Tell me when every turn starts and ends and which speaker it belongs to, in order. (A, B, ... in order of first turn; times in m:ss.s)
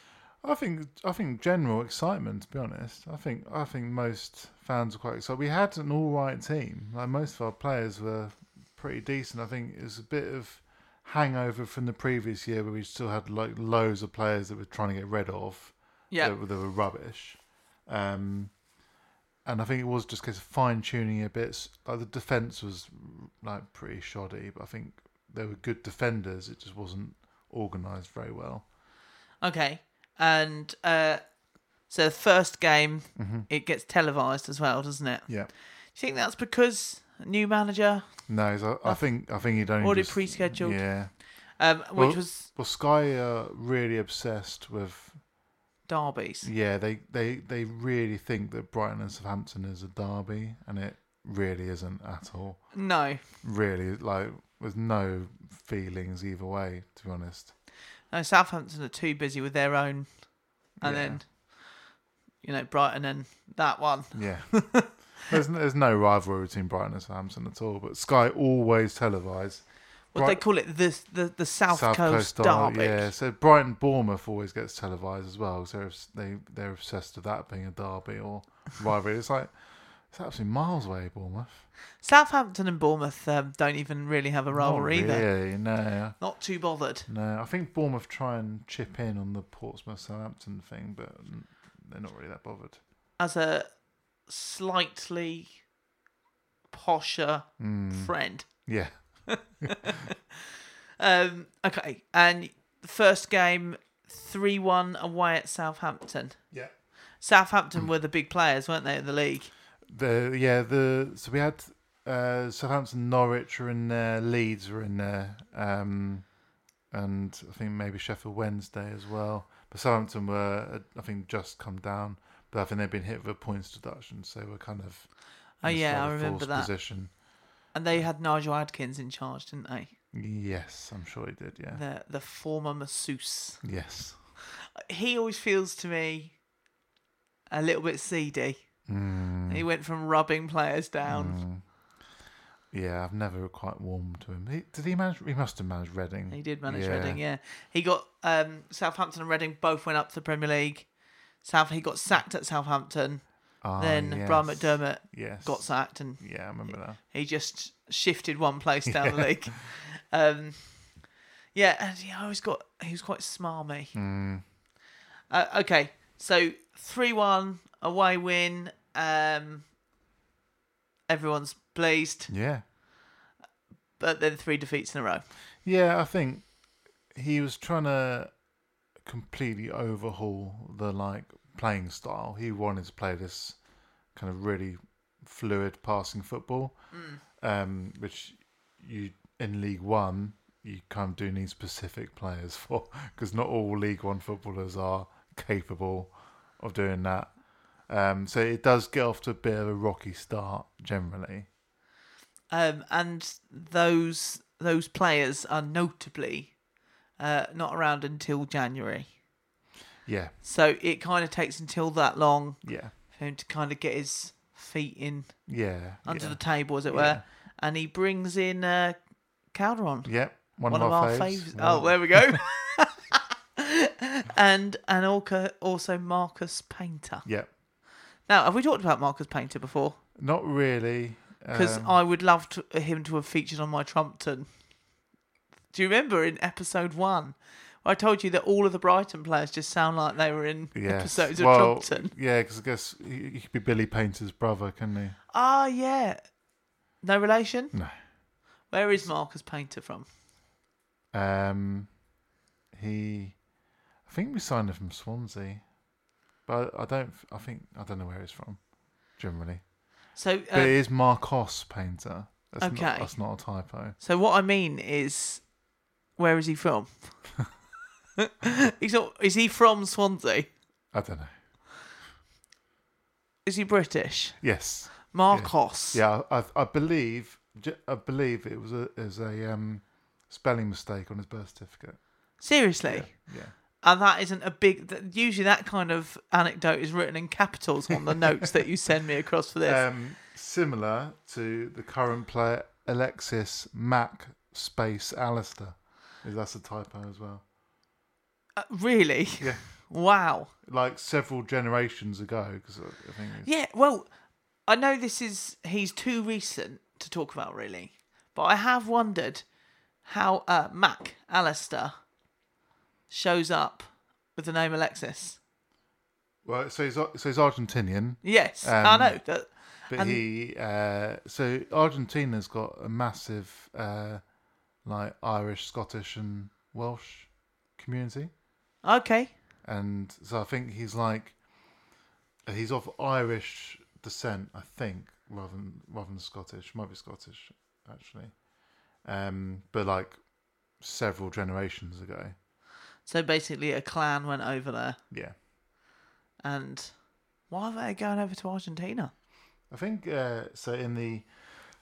0:00.4-0:18.5 A
0:19.4-0:28.6 A
0:29.4-0:31.2 B
0:31.9-0:35.4 B
0:33.2-0:33.5 A
0:35.9-0:38.2 B
0:38.3-0:41.2 A
0:38.8-0:40.8 B
0:41.6-0:42.5 B
0:41.9-0:45.2 A
0:45.8-0:46.5 B
0:46.4-0:57.5 A
0:52.7-0:53.2 B
0:58.1-1:00.2 B
1:00.8-1:01.6 B
1:00.8-1:01.2 A
1:02.4-1:04.9 B
1:04.1-1:10.4 A
1:10.1-1:13.1 B
1:11.7-1:19.5 A
1:20.1-1:21.7 A
1:22.0-1:25.5 B
1:24.5-1:26.2 A
1:26.2-1:27.1 B
1:27.0-1:32.8 A
1:33.2-1:33.7 B
1:34.2-1:35.6 B
1:36.7-1:38.7 B
1:37.6-1:40.0 A
1:39.3-1:40.0 B
1:41.0-1:46.4 B
1:47.2-1:49.5 B
1:49.9-1:56.3 A
1:56.9-2:05.1 A
2:05.6-2:06.7 B
2:05.6-2:07.1 A
2:07.7-2:09.9 B
2:10.1-2:11.8 A
2:11.7-2:13.6 B
2:13.6-2:14.2 A
2:14.8-2:16.4 B
2:17.5-2:18.7 B
2:18.9-2:19.6 A
2:19.4-2:21.4 B
2:21.0-2:21.6 A
2:22.7-2:27.2 A
2:26.3-2:30.9 B
2:31.4-2:41.0 B
2:33.6-2:37.0 A
2:38.8-2:39.5 A
2:41.5-2:43.9 B
2:43.9-2:44.4 A
2:45.3-2:49.7 B
2:51.1-2:52.3 B
2:52.3-2:52.6 A
2:54.0-2:55.2 B
2:55.6-2:56.5 A
2:57.1-2:58.3 A
2:59.0-3:03.6 A
3:04.1-3:21.5 A
3:06.9-3:07.2 B
3:22.5-3:26.6 B
3:27.2-3:29.1 B
3:30.0-3:30.3 A
3:30.4-3:35.5 B
3:32.6-3:32.9 A
3:35.5-3:37.2 A
3:36.0-3:39.0 B
3:39.5-3:42.9 B
3:40.0-3:42.4 A
3:43.6-3:47.2 B
3:47.2-3:47.5 A
3:48.3-3:50.0 B
3:50.2-3:52.0 A
3:51.5-3:54.5 B
3:55.7-4:02.1 B
4:00.7-4:05.2 A
4:05.3-4:06.3 B
4:07.0-4:07.8 B
4:07.7-4:08.0 A
4:08.7-4:10.1 B
4:11.1-4:12.0 A
4:12.7-4:13.4 A
4:14.0-4:15.7 A
4:16.4-4:19.7 A
4:20.2-4:20.8 B
4:20.5-4:24.0 A
4:22.6-4:23.3 B
4:24.0-4:25.5 B
4:26.2-4:27.2 B
4:28.2-4:30.5 B
4:30.9-4:31.3 A
4:33.4-4:34.4 B
4:34.4-4:43.5 A
4:35.1-4:36.0 B
4:42.4-4:43.3 B
4:43.8-4:49.8 B
4:49.6-4:57.4 A
4:58.6-5:00.5 B
4:59.4-4:59.6 A
5:00.6-5:03.5 A
5:03.4-5:04.1 B
5:04.6-5:09.4 B
5:10.0-5:11.9 B
5:13.1-5:15.4 B
5:16.4-5:19.3 A
5:18.2-5:20.2 B
5:19.9-5:24.2 A
5:24.8-5:28.3 A
5:28.8-5:29.3 B
5:29.6-5:31.7 A
5:32.4-5:38.4 A
5:39.0-5:42.3 A
5:43.0-5:45.0 B
5:45.1-5:45.4 A
5:46.4-5:49.1 B
5:49.7-5:51.3 A